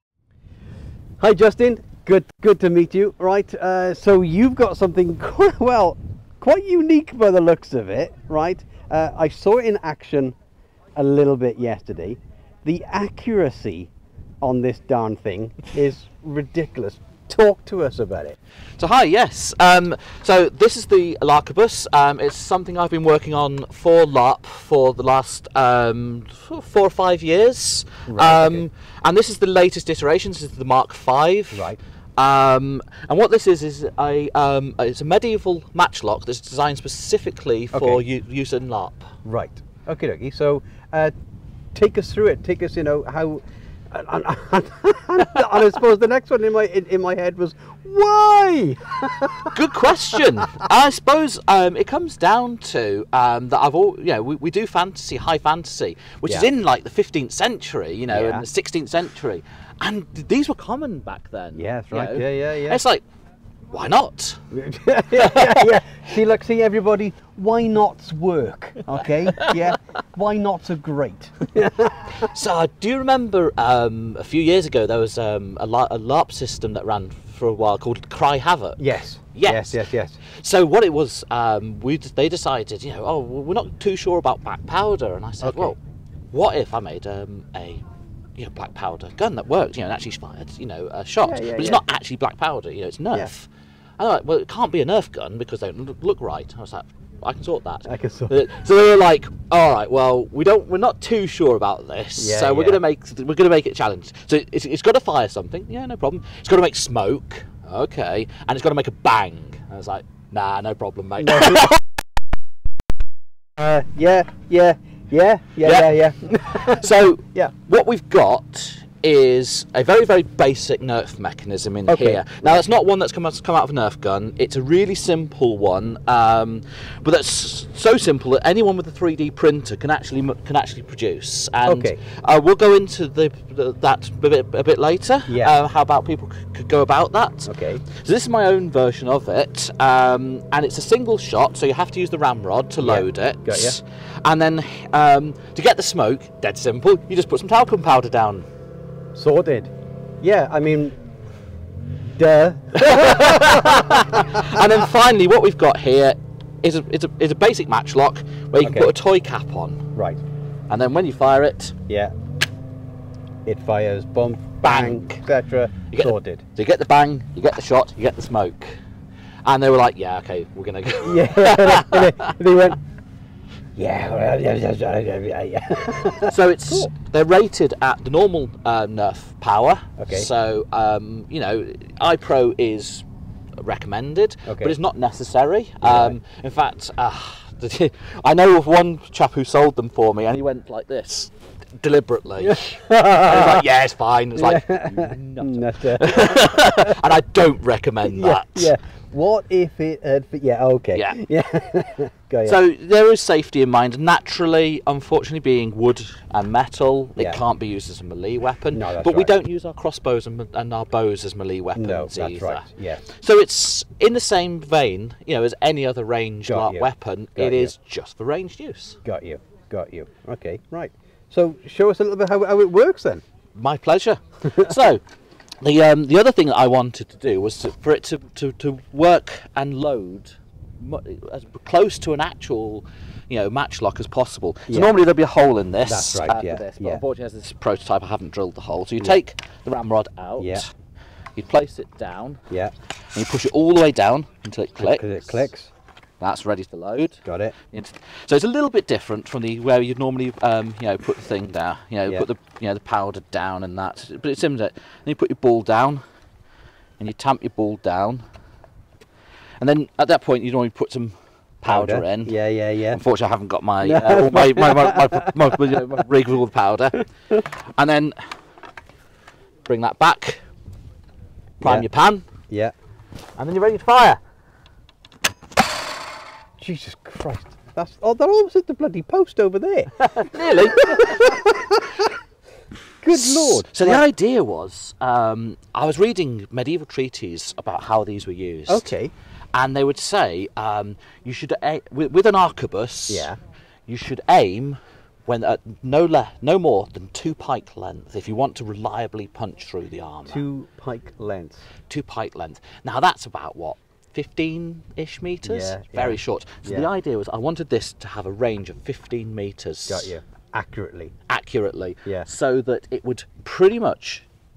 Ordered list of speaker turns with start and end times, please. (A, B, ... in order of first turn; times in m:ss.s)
0:01.2-0:10.4 A
0:11.0-0:18.4 A
0:18.8-0:39.1 B
0:28.1-0:28.6 A
0:31.5-0:31.8 A
0:37.7-0:38.0 A
0:39.2-0:41.1 A
0:41.7-0:49.5 A
0:49.5-1:03.0 B
0:58.1-0:58.4 A
1:01.6-1:02.8 A
1:03.7-1:04.4 B
1:04.5-1:12.3 A
1:05.1-1:05.8 B
1:09.2-1:09.7 B
1:12.1-1:25.8 B
1:18.8-1:20.2 A
1:25.4-1:25.7 A
1:26.3-1:27.8 B
1:28.4-1:51.8 B
1:31.2-1:31.8 A
1:37.8-1:38.4 A
1:42.2-1:42.8 A
1:51.2-1:51.8 A
1:53.6-1:57.5 A
1:55.6-1:55.9 B
1:56.5-2:28.4 B
2:01.9-2:02.6 A
2:11.6-2:12.0 A
2:15.3-2:15.5 A
2:17.4-2:17.8 A
2:22.8-2:23.8 A
2:29.1-2:31.0 A
2:32.1-2:34.6 A
2:32.8-2:39.8 B
2:38.6-2:38.9 A
2:39.9-2:40.2 A
2:40.7-2:41.7 B
2:41.9-2:42.1 A
2:43.4-2:46.4 A
2:44.6-2:45.2 B
2:45.9-2:48.8 B
2:49.4-2:52.2 B
2:51.0-2:52.8 A
2:53.8-2:56.9 A
2:56.2-3:03.0 B
3:00.0-3:00.3 A
3:03.6-3:18.7 B
3:04.5-3:04.7 A
3:05.8-3:06.2 A
3:12.4-3:13.6 A
3:14.4-3:17.0 A
3:18.0-3:22.6 A
3:22.4-3:39.0 B
3:28.7-3:29.3 A
3:31.7-3:33.1 A
3:36.5-3:37.7 A
3:39.0-3:43.2 A
3:43.5-3:45.0 B
3:45.6-4:00.7 B
3:55.8-3:57.0 A
4:01.3-4:02.4 B
4:03.1-4:05.5 B
4:04.8-4:05.7 A
4:06.2-4:16.0 B
4:07.2-4:07.5 A
4:17.0-4:18.2 B
4:19.6-4:22.3 B
4:21.7-4:23.0 A
4:22.9-4:28.2 B
4:23.8-4:25.8 A
4:29.6-4:30.4 B
4:31.6-4:32.2 B
4:32.5-4:32.7 A
4:33.4-4:34.2 B
4:36.6-4:42.0 A
4:40.0-4:41.4 B
4:43.0-4:44.0 A
4:43.1-4:48.9 B
4:48.7-4:49.1 A
4:49.5-4:53.3 B
4:53.1-4:53.4 A
4:53.9-5:00.4 B
5:00.3-5:01.7 A
5:01.9-5:10.1 B
5:05.4-5:06.9 A
5:09.9-5:11.1 A
5:11.3-5:14.2 B